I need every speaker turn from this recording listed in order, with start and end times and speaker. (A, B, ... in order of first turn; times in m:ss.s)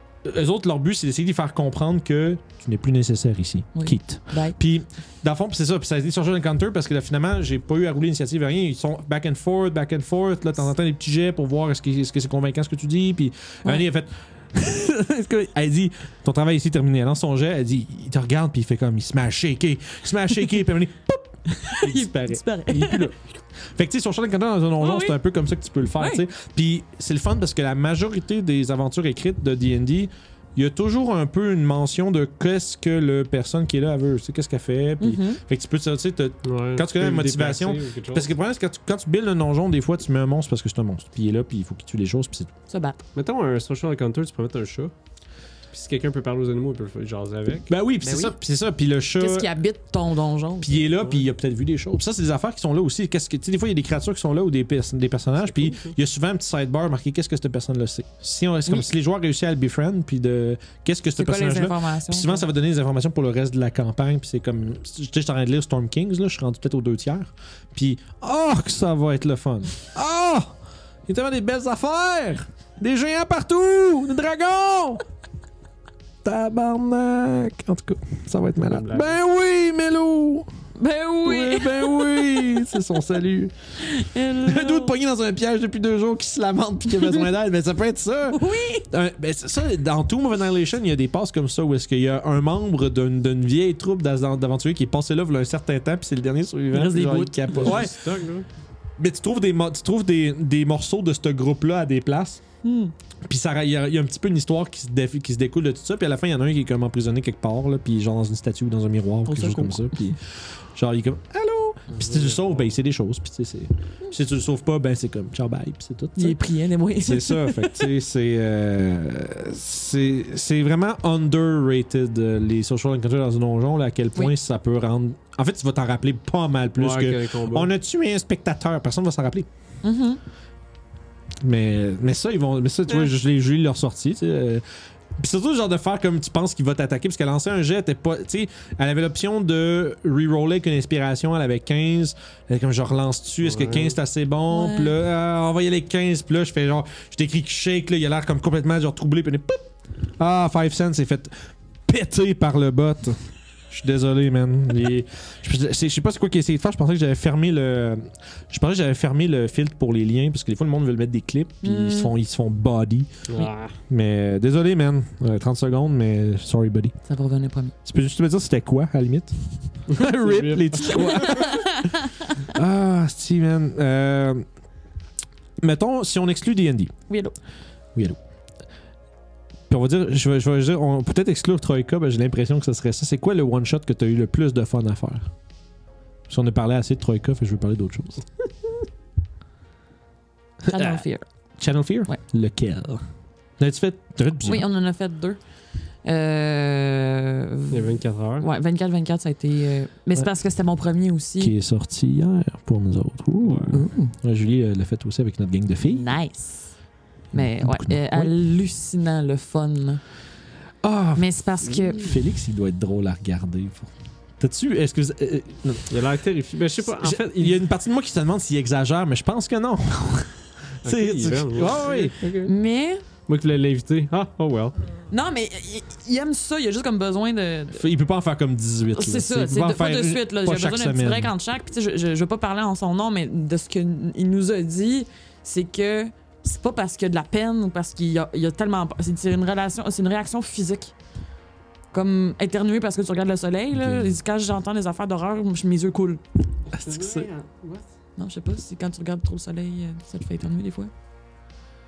0:00.2-0:42.5 A
0:03.8-0:04.6 B
0:21.5-0:23.1 B
0:24.8-0:25.2 B
0:35.0-0:35.4 B
0:36.4-0:38.3 C
0:42.7-0:43.0 B
0:43.2-0:44.9 C
0:45.7-0:47.7 C
0:47.7-0:49.5 A
0:48.0-0:48.4 B
0:49.2-0:50.9 B
0:50.6-1:10.6 A
0:55.5-0:55.9 C
1:01.2-1:02.5 B
1:11.1-1:15.0 A
1:16.2-1:20.5 A
1:18.7-1:19.1 C
1:20.8-1:22.4 B
1:21.2-1:23.5 A
1:23.8-1:25.0 B
1:24.4-1:38.0 A
1:28.3-1:28.9 B
1:36.7-1:37.9 B
1:37.6-1:38.5 C
1:39.0-1:42.4 A
1:42.6-1:42.9 B
1:43.2-1:56.4 A
1:49.3-1:50.1 B
1:51.9-1:52.7 C
1:56.2-1:57.9 B
1:57.0-2:09.5 A
2:06.8-2:07.7 C
2:09.8-2:10.2 B
2:11.4-2:14.6 A
2:15.2-2:33.2 A
2:23.4-2:24.0 C
2:24.5-2:24.9 B
2:33.7-2:43.3 A
2:41.6-2:42.1 B
2:43.3-2:43.8 C
2:43.9-2:47.0 A
2:47.1-2:47.7 B
2:47.8-2:54.4 A
2:49.9-2:51.4 C
2:51.1-2:52.3 B
2:55.6-2:56.9 A
2:57.1-2:57.4 B
2:59.7-3:05.3 A
3:06.3-3:08.2 A
3:10.7-3:11.0 A
3:10.7-3:11.2 B
3:11.6-3:13.0 A
3:13.6-3:14.7 A
3:14.4-3:15.4 B
3:16.0-3:21.5 B
3:17.7-3:18.5 C
3:21.4-3:26.1 A
3:23.7-3:24.2 B
3:25.9-3:26.7 B
3:27.3-3:28.3 A
3:27.3-3:30.0 B
3:30.8-3:36.0 A
3:31.2-3:32.1 B
3:35.9-3:37.6 C
3:36.8-3:42.2 A
3:40.8-3:42.5 C
3:42.4-3:43.0 B
3:43.3-3:44.8 C
3:45.1-3:47.8 B
3:47.7-3:51.3 A
3:48.9-4:01.0 B
4:01.9-4:06.2 B
4:03.8-4:04.1 A
4:06.7-4:07.8 C
4:06.7-4:07.3 A
4:08.2-4:10.9 B